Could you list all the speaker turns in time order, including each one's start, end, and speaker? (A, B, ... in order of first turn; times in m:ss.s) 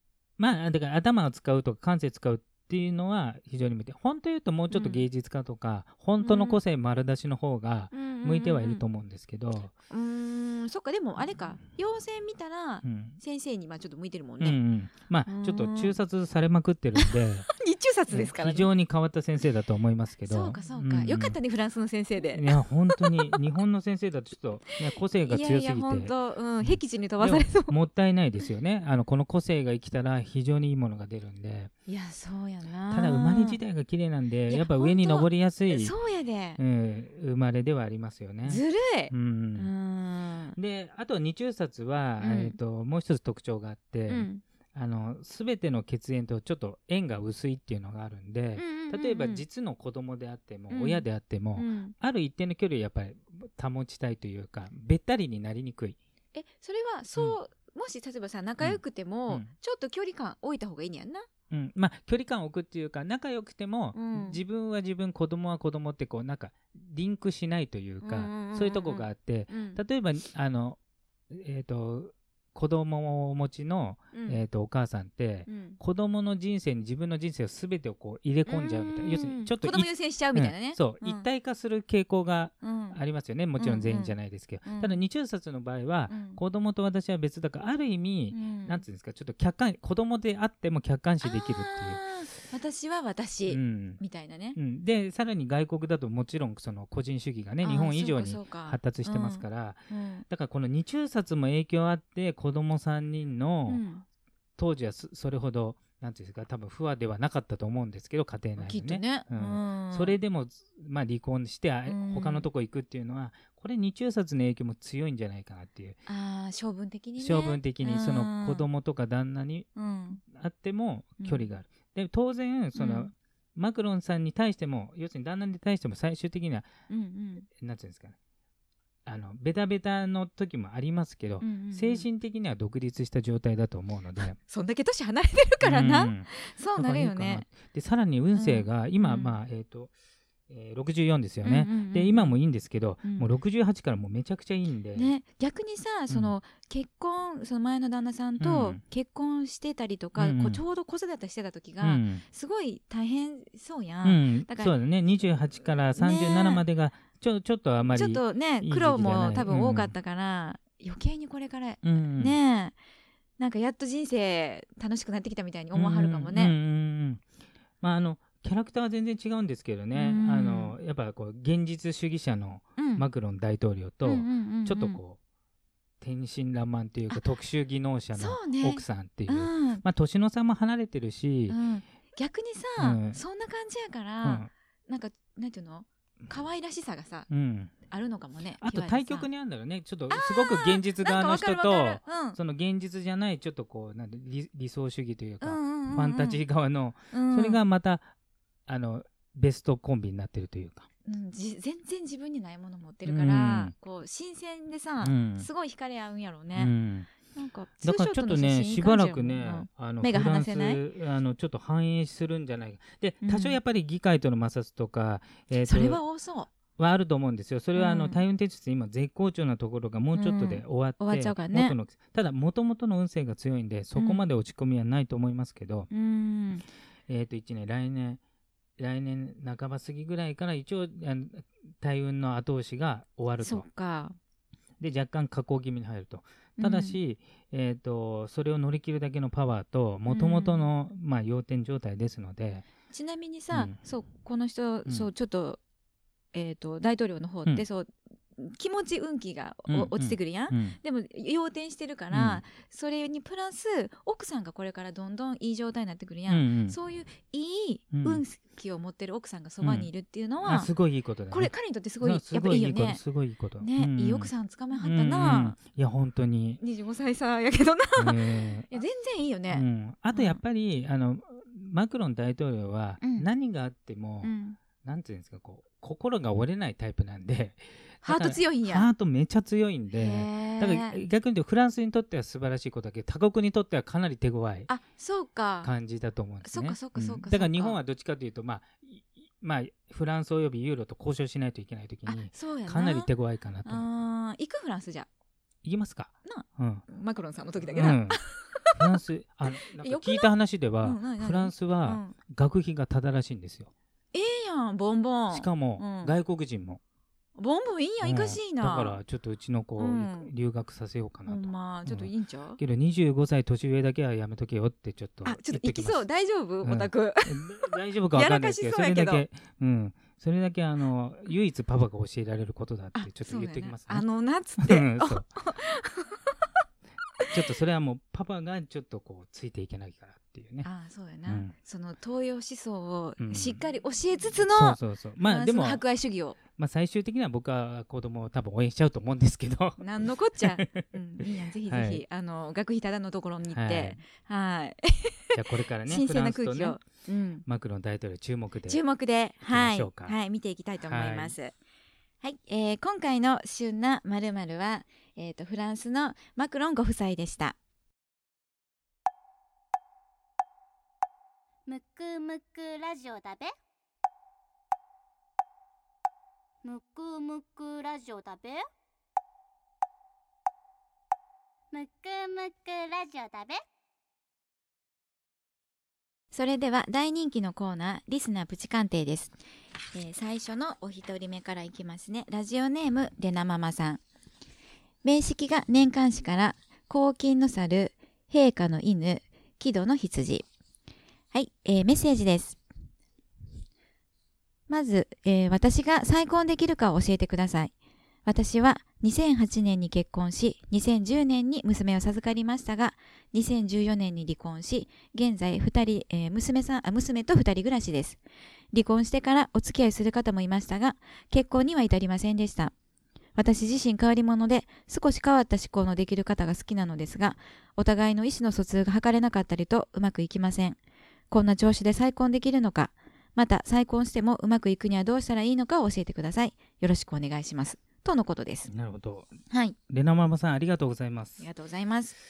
0:00.4-0:09.7 A
0:04.7-0:05.0 B
0:06.2-0:06.6 B
0:07.9-0:08.8 B
0:09.9-0:14.6 B
0:12.8-0:13.2 A
0:14.4-0:17.5 A
0:15.2-0:15.9 B
0:16.9-0:18.7 B
0:18.1-0:21.4 A
0:20.2-0:23.4 B
0:22.3-0:31.7 A
0:24.7-0:27.7 B
0:31.9-0:33.6 B
0:32.9-0:35.9 A
0:34.5-0:36.6 B
0:36.6-0:39.7 A
0:38.4-0:40.6 B
0:40.6-0:56.0 A
0:42.2-0:42.6 B
0:44.1-0:44.4 B
0:48.6-0:49.4 B
0:50.7-0:51.0 B
0:51.6-0:51.9 B
0:56.3-1:01.3 B
0:58.6-0:59.5 A
1:01.5-1:10.8 A
1:03.9-1:04.4 B
1:08.0-1:09.8 B
1:11.3-1:32.0 A
1:14.1-1:14.4 B
1:15.5-1:15.8 B
1:18.5-1:21.2 B
1:22.6-1:23.0 B
1:23.6-1:25.0 B
1:26.1-1:26.4 B
1:28.3-1:28.8 B
1:31.2-1:34.6 B
1:33.5-1:34.0 A
1:34.6-1:43.8 A
1:37.6-1:40.2 B
1:43.7-1:44.0 B
1:44.6-1:56.0 A
1:48.6-1:50.2 B
1:51.9-1:52.5 B
1:56.0-1:58.7 B
1:57.2-1:59.7 A
1:59.8-2:00.2 B
2:00.2-2:06.7 A
2:01.2-2:01.5 B
2:02.7-2:03.1 B
2:06.9-2:07.5 B
2:07.6-2:08.2 A
2:09.0-2:14.4 A
2:11.4-2:12.1 B
2:14.4-2:17.4 B
2:15.6-2:19.9 A
2:18.3-2:19.4 B
2:20.5-2:25.1 A
2:21.4-2:22.4 B
2:23.0-2:23.3 B
2:24.9-2:34.7 B
2:28.4-2:28.8 A
2:30.2-2:30.6 A
2:31.8-2:32.2 A
2:34.0-2:39.9 A
2:36.0-2:36.6 B
2:37.9-2:42.7 B
2:41.8-2:42.4 A
2:43.4-2:46.5 B
2:45.7-2:47.2 A
2:47.8-2:55.2 A
2:49.9-2:50.7 B
2:52.8-2:53.0 B
2:54.0-2:55.0 B
2:56.0-3:01.6 A
2:58.2-2:59.8 B
3:01.5-3:07.3 B
3:02.8-3:03.2 A
3:04.2-3:04.5 A
3:07.3-3:07.7 A
3:07.9-3:09.3 B
3:08.6-3:18.1 A
3:10.1-3:12.4 B
3:15.4-3:16.4 B
3:17.1-3:17.6 B
3:18.7-3:20.9 A
3:21.0-3:26.7 B
3:23.0-3:23.7 A
3:25.0-3:25.5 A
3:26.5-3:27.1 A
3:27.3-3:30.8 B
3:27.8-3:36.0 A
3:33.2-3:33.6 B
3:35.6-3:36.5 B
3:36.8-3:45.9 A
3:37.7-3:38.2 B
3:40.1-3:41.8 B
3:43.9-3:44.2 B
3:45.9-3:46.6 B
3:47.1-3:48.2 A
3:48.8-3:53.6 A
3:53.4-3:54.2 B
3:54.8-4:02.6 A
3:56.6-3:57.0 B
4:00.1-4:00.6 B
4:02.9-4:05.6 B
4:06.3-4:20.7 B
4:09.7-4:10.8 A
4:12.1-4:12.4 A
4:16.3-4:16.8 A
4:17.9-4:18.2 A
4:19.6-4:19.9 A
4:20.4-4:26.6 A
4:21.3-4:23.0 B
4:23.6-4:25.6 B
4:26.6-4:30.4 B
4:28.0-4:28.8 A
4:29.5-4:44.7 A
4:33.0-4:33.3 B
4:34.2-4:34.6 B
4:38.0-4:38.9 B
4:39.9-4:41.0 B
4:44.7-4:45.7 B
4:45.6-4:53.8 A
4:46.4-4:47.8 B
4:52.0-4:53.1 B
4:53.6-4:55.1 B
4:55.6-4:56.8 A
4:56.2-5:02.1 B
4:57.6-4:58.2 A
4:58.7-5:03.7 A
5:04.1-5:06.1 B
5:05.3-5:06.8 A
5:07.4-5:09.0 B
5:08.0-5:16.0 A
5:09.8-5:10.3 B
5:11.2-5:12.6 B
5:15.2-5:19.2 B
5:16.6-5:24.0 A
5:22.9-5:26.4 B
5:24.6-5:25.3 A
5:27.3-5:30.7 A
5:30.6-5:36.4 B
5:31.3-5:31.5 A
5:33.2-5:33.6 A
5:34.4-5:35.8 A
5:36.6-5:40.8 A
5:39.8-5:47.4 B
5:41.7-5:42.0 A
5:43.5-5:44.0 A
5:45.3-5:46.8 A
5:47.4-5:48.8 A
5:48.7-5:51.5 B
5:49.4-5:50.2 A
5:50.8-5:51.3 A
5:52.2-5:57.6 B
6:01.7-6:03.5 C
6:06.6-6:08.6 C
6:11.7-6:13.6 C
6:16.3-6:19.3 B
6:19.9-6:24.0 B
6:25.0-6:30.4 B
6:31.3-6:32.6 B
6:34.7-6:37.7 B
6:38.2-6:48.2 B
6:48.7-6:52.7 B
6:53.4-7:00.8 B
7:01.3-7:08.7 B
7:08.7-7:09.3 A
7:09.5-7:09.8 B
7:09.9-7:11.4 A
7:11.4-7:12.2 B